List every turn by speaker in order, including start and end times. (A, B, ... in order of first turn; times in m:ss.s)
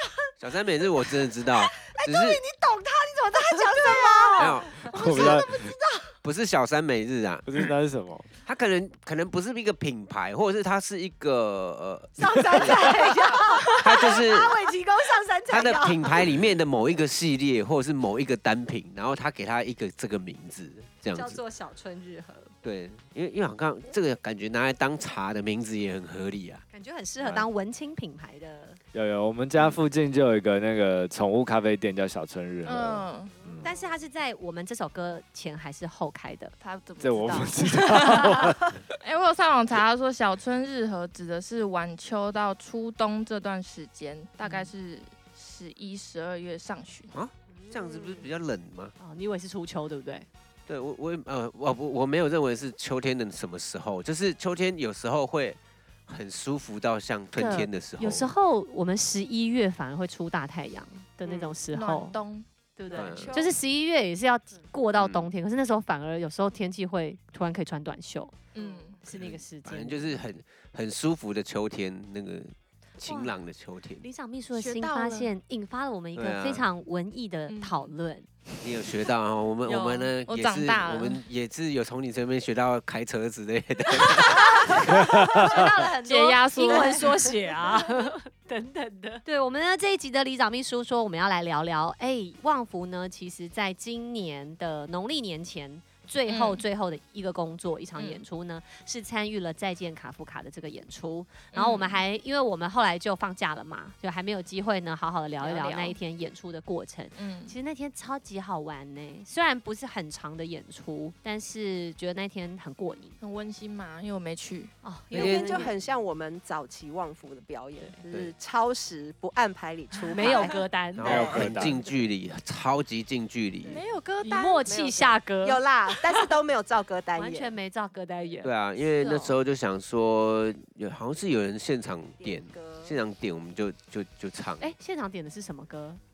0:00.4-0:02.4 A
0:02.0-0:02.7 B
0:02.5-0:04.8 C
0:03.4-0:06.0 B
0:04.4-0:05.4 A
0:04.8-0:05.7 D
0:06.2-0:07.7 A
0:07.4-0:08.3 D
0:08.4-0:12.9 A
0:12.2-0:16.0 B
0:12.6-0:16.0 C
0:13.8-0:14.6 A
0:15.5-0:21.4 A
0:21.1-0:22.5 C
0:22.6-0:26.6 A
0:26.7-0:28.8 C
0:27.2-0:27.5 D
0:28.9-0:33.7 D
0:32.6-0:33.3 E
0:33.6-0:36.5 C
0:36.6-0:47.1 E
0:37.0-0:38.8 D
0:47.1-0:48.9 A
0:47.5-0:48.2 B
0:49.0-0:50.3 C
0:50.7-0:58.3 A
0:57.3-1:02.2 C
1:01.2-1:01.6 B
1:01.7-1:03.5 E
1:02.8-1:08.3 C
1:02.9-1:03.5 B
1:02.9-1:03.4 A
1:04.9-1:05.3 A
1:08.5-1:09.0 E
1:08.6-1:09.0 B
1:09.0-1:10.2 C
1:09.1-1:14.0 A
1:13.0-1:13.3 C
1:14.0-1:18.4 C
1:14.5-1:15.3 E
1:16.2-1:16.6 A
1:17.5-1:17.9 E
1:18.6-1:24.8 A
1:19.6-1:21.2 E
1:24.1-1:53.2 C
1:24.9-1:27.3 E
1:24.9-1:25.5 D
1:26.7-1:27.6 B
1:36.3-1:36.6 E
1:38.0-1:38.2 E
1:41.5-1:42.0 E
1:45.4-1:46.0 E
1:47.2-1:47.5 E
1:53.2-1:54.7 E
1:54.8-1:55.7 C
1:55.1-1:55.7 A
1:55.1-2:01.4 B
2:00.0-2:00.6 E
2:00.1-2:01.7 C
2:01.0-2:03.8 A
2:01.0-2:01.8 D
2:03.6-2:07.5 B
2:03.7-2:04.6 E
2:04.2-2:06.3 C
2:07.1-2:08.5 C
2:08.4-2:14.7 A
2:09.0-2:09.3 E
2:12.2-2:13.0 B
2:14.6-2:16.0 C